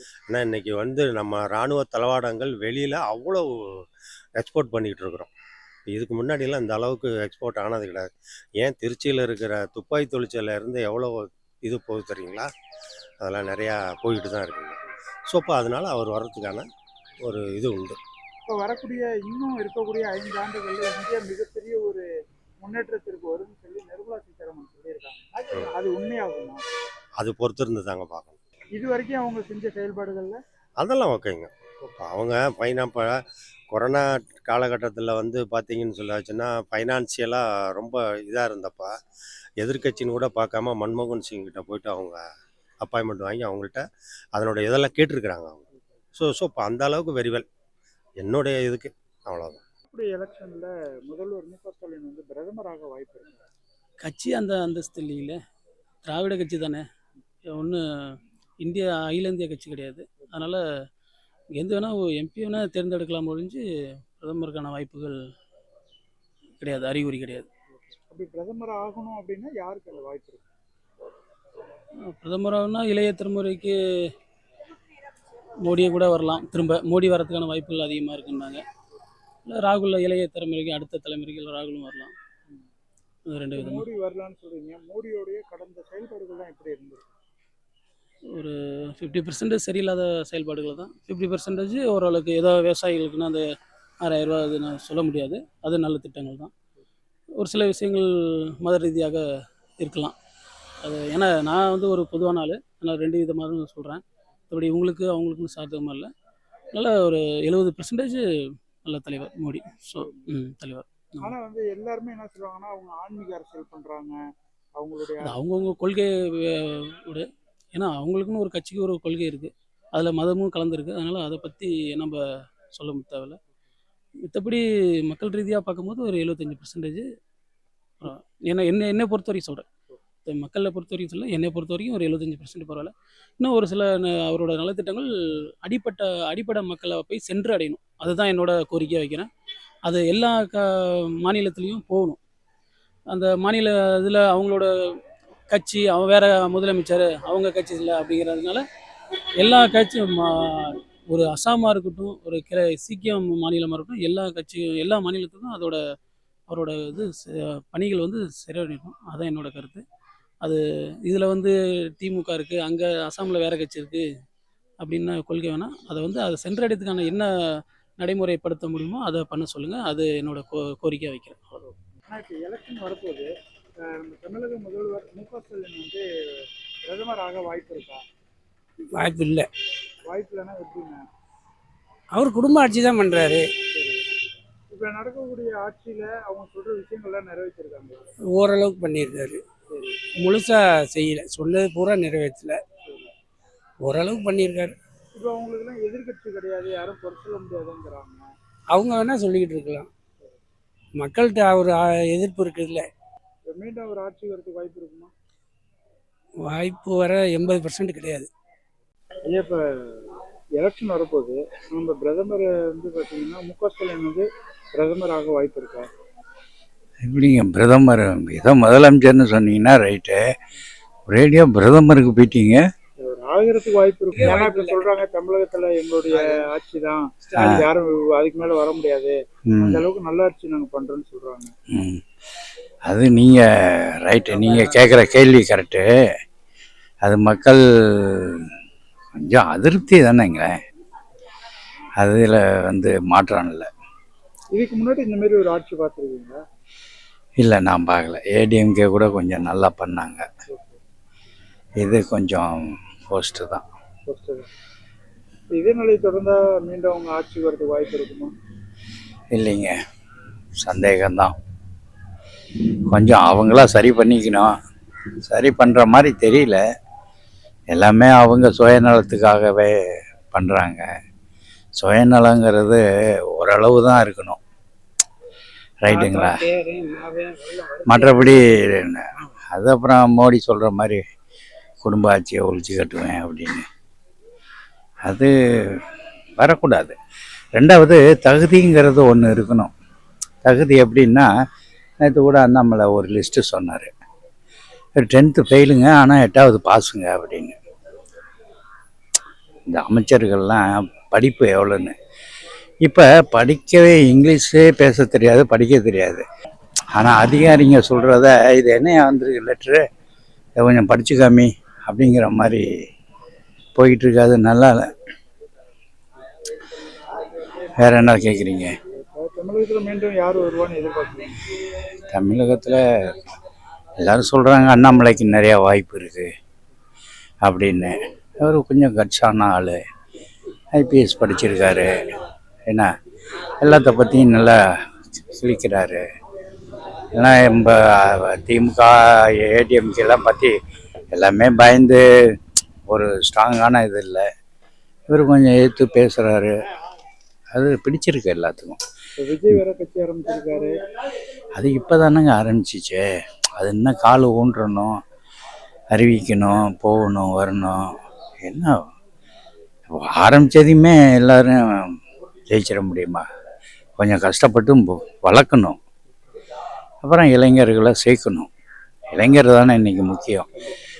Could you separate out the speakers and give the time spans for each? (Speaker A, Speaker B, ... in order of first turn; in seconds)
Speaker A: 0.3-3.5, 4.4-5.3, 5.9-12.5, 13.2-16.7, 17.2-18.0, 27.2-28.4, 30.8-39.0, 39.6-42.2, 42.8-47.5, 48.2-49.6
Speaker B: 18.5-22.1, 22.6-26.6, 28.8-30.4, 49.9-53.3, 68.1-70.5, 83.5-87.1, 110.0-110.2, 111.2-114.2, 114.8-115.4, 171.6-173.3, 173.8-176.0, 176.8-178.0, 180.1-181.1, 183.7-184.1, 184.7-188.1, 189.7-190.0, 195.2-198.2, 203.5-205.1, 209.3-210.1, 210.6-215.9, 223.0-231.5, 244.6-246.4, 250.5-250.8, 254.1-254.5, 255.5-258.3, 276.9-277.2, 319.1-321.4, 349.2-350.7
Speaker C: 54.0-55.4, 56.1-56.8, 57.5-57.8, 58.6-60.6, 61.6-63.6, 64.2-65.2, 66.6-67.5, 72.1-73.7, 75.7-78.6, 79.5-82.1, 83.3-83.8, 88.3-93.4, 94.0-96.5, 97.4-98.1, 98.6-99.2, 99.8-100.2, 100.8-106.1, 106.7-108.2, 108.8-111.3, 115.2-122.2, 122.7-123.4, 124.3-127.0, 128.0-129.7, 130.3-135.1, 135.6-139.3, 139.9-140.7, 141.2-142.2, 143.1-144.7, 145.5-148.6, 149.4-155.8, 156.5-159.8, 160.4-164.0, 164.8-167.3, 168.0-171.4
Speaker D: 179.0-179.5, 182.2-183.4, 188.3-189.4, 190.2-192.6, 193.8-194.8, 198.7-199.9, 201.0-202.9, 206.5-208.3, 224.1-224.9, 234.4-234.8, 275.9-277.1, 277.7-278.0
Speaker E: 217.1-220.2, 221.1-222.6, 227.4-227.7, 229.5-229.8, 231.7-232.0, 232.9-233.4, 234.1-235.9, 237.1-238.5, 239.1-240.5, 242.0-243.7, 247.4-250.3, 251.8-252.5, 253.1-253.6, 259.3-259.7, 260.6-261.3, 262.9-264.5, 265.3-266.6, 267.7-269.7, 270.3-270.8, 271.8-272.8, 273.4-274.4, 275.9-276.4, 277.9-281.0, 281.8-283.6, 285.1-285.8, 286.4-286.9, 287.6-289.7, 290.4-291.3, 292.0-293.9, 295.0-297.6, 299.7-301.9, 302.8-306.2, 306.9-309.8, 310.6-312.7, 313.8-314.8, 317.8-318.7, 322.1-322.8, 324.0-326.3, 327.4-329.8, 330.7-331.9, 333.6-334.6, 335.3-336.0, 337.1-340.6, 341.1-342.0, 342.9-344.2, 345.1-346.5, 347.5-348.8, 351.6-353.1, 353.6-355.0, 355.9-357.8, 358.4-358.8, 360.0-361.9, 362.5-363.2, 364.0-365.8, 367.0-368.5, 369.1-370.5